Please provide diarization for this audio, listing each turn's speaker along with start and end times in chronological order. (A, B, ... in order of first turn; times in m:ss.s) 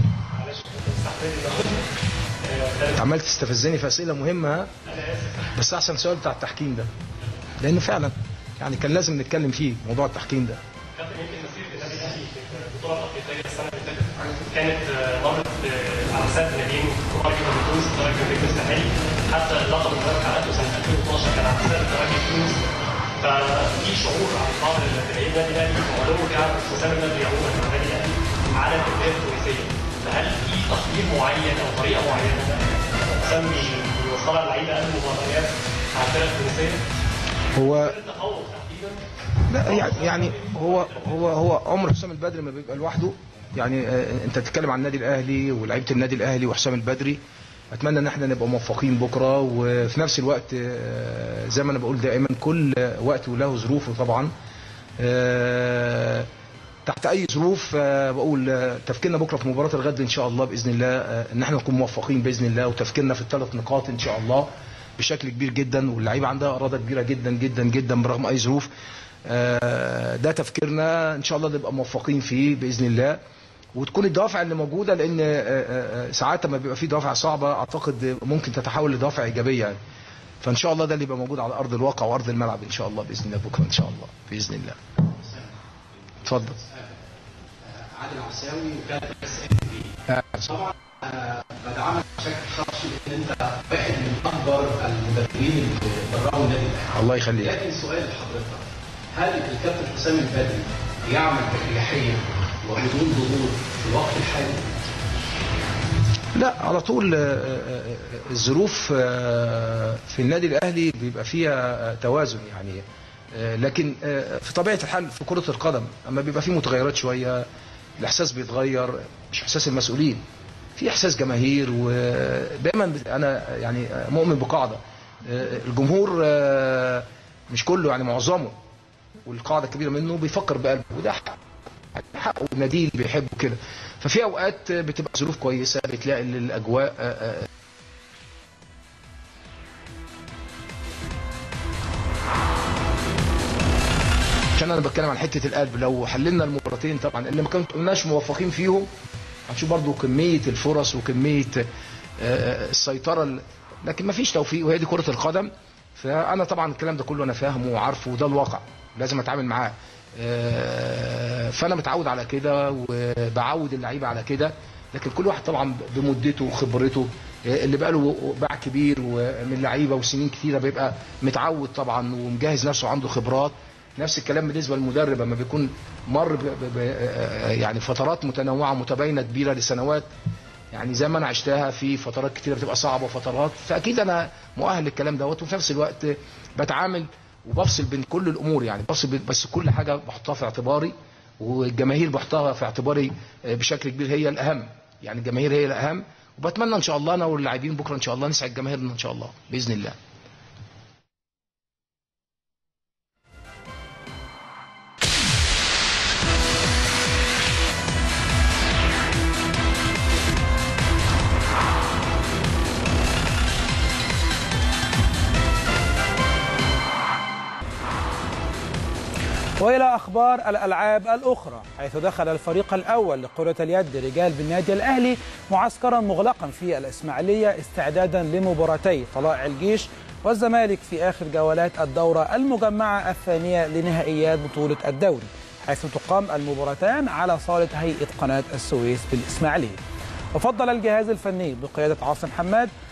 0:00.3-0:03.0 A
0:02.9-0:04.7 B
0:04.8-0:05.6 A
0:05.5-0:06.9 B
0:07.6-0:10.6 B
0:10.9-0:36.8 A
0:37.5-0:38.0 B
0:37.6-0:39.0 A
0:39.5-0:47.2 B
0:39.6-0:40.7 A
0:47.7-0:54.3 B
0:55.0-0:56.3 B
0:56.8-1:08.7 B
1:09.2-1:13.2 B
1:13.7-1:19.8 B
1:20.4-1:24.8 B
1:25.2-1:27.0 C
1:26.2-1:26.6 B
1:27.6-1:44.9 C
1:36.9-1:37.5 B
1:46.3-1:57.5 B
1:58.0-2:00.2 B
2:00.8-2:08.5 B
2:09.2-2:11.4 B
2:11.9-2:17.5 B
2:24.6-2:28.9 B
2:29.5-2:31.7 B
2:32.2-3:00.1 B
3:00.7-3:20.0 B
3:39.6-3:59.8 D
4:00.3-4:02.7 D